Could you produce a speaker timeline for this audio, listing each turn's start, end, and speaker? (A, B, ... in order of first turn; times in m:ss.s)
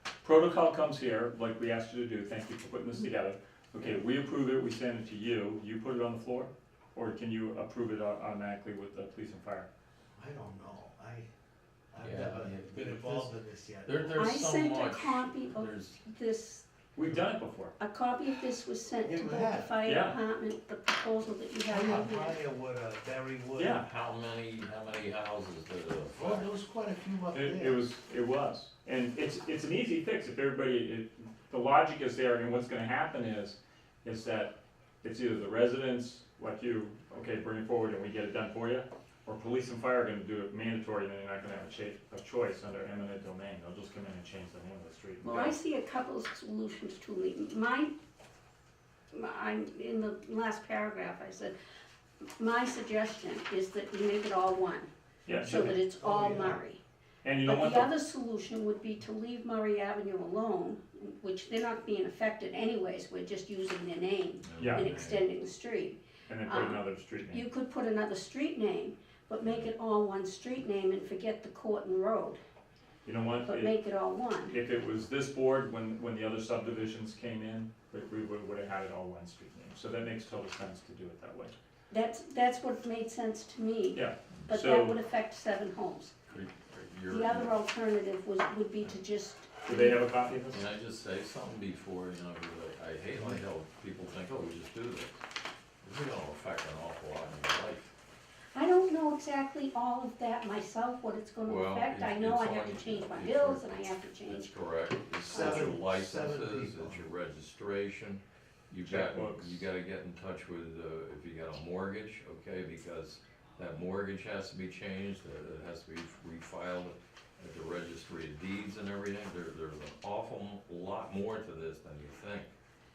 0:00.2-0:09.7 A
0:10.2-0:11.3 B
0:11.9-0:14.3 B
0:12.0-0:13.3 C
0:13.8-0:16.0 C
0:14.2-0:16.7 D
0:17.0-0:17.8 A
0:17.8-0:22.4 D
0:19.0-0:19.8 B
0:19.8-0:20.2 A
0:21.7-0:23.9 B
0:23.6-0:23.8 A
0:23.8-0:26.5 C
0:26.2-0:27.8 B
0:27.3-0:45.6 A
0:45.2-0:47.9 D
0:49.1-0:51.5 D
0:52.4-0:54.9 D
0:55.3-0:55.7 A
0:55.4-0:56.6 B
0:55.4-0:56.8 D
0:57.2-0:57.9 A
0:57.4-1:12.4 D
1:04.4-1:05.3 C
1:04.6-1:04.9 A
1:06.3-1:07.5 A
1:09.4-1:09.7 C
1:13.0-1:13.8 A
1:13.5-1:14.6 D
1:14.5-1:21.5 A
1:21.9-1:26.2 D
1:23.9-1:25.0 A
1:26.3-1:27.6 C
1:27.1-1:30.0 D
1:29.7-1:30.6 A
1:30.5-1:35.2 C
1:35.8-1:37.9 C
1:38.5-1:44.6 D
1:41.4-2:02.5 C
1:45.3-1:47.0 B
1:45.3-1:45.7 D
1:48.8-1:49.6 A